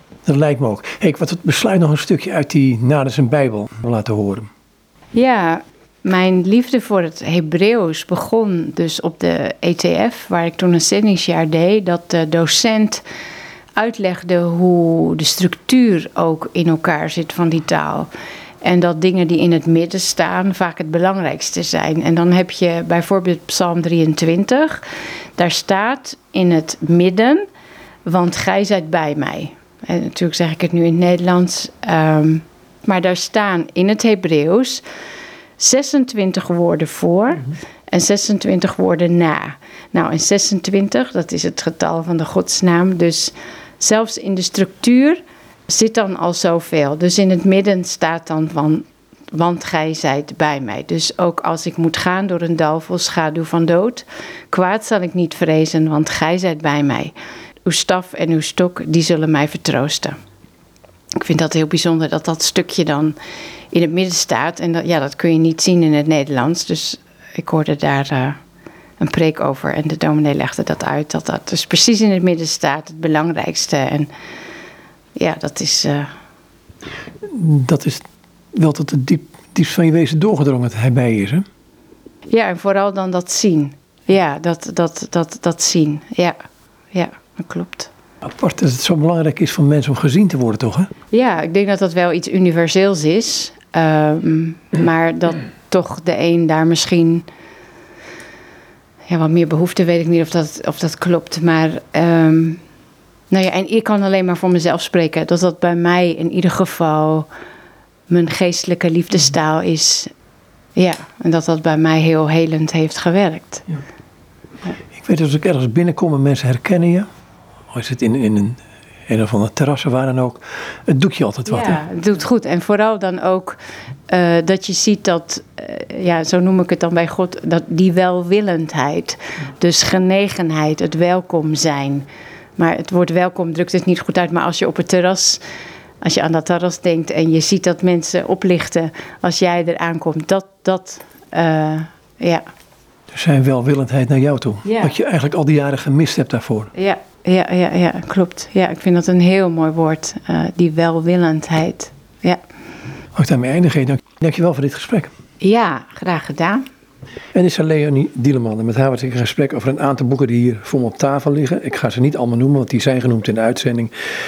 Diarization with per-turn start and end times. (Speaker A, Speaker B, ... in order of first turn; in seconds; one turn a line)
Speaker A: 0.2-4.5
Speaker B: 5.1-13.0
Speaker B: 13.8-18.1
Speaker B: 18.6-24.8
Speaker B: 25.4-27.4
Speaker B: 28.0-34.8
Speaker B: 35.6-57.1
Speaker B: 57.6-60.2
Speaker B: 61.2-63.1
Speaker B: 63.7-68.4
Speaker B: 69.0-74.1
Speaker B: 75.2-76.1
Speaker A: 77.2-81.4
Speaker B: 82.3-86.3
Speaker B: 86.9-87.9
Speaker A: 88.2-90.9
Speaker B: 91.1-97.2
Speaker B: 99.1-102.6
Speaker B: 103.3-107.3
Speaker B: 108.1-110.1
Speaker B: 110.8-113.6
Speaker A: 115.0-117.1
Speaker A: 117.7-121.8
Speaker B: 121.5-132.1
Speaker B: 132.6-135.4
Speaker B: 136.0-142.4
Speaker A: 143.1-146.7
Speaker B: 144.6-144.9
Speaker B: 146.7-152.4
Speaker A: 153.1-155.1
Speaker B: 155.4-156.6
Speaker A: 157.3-163.9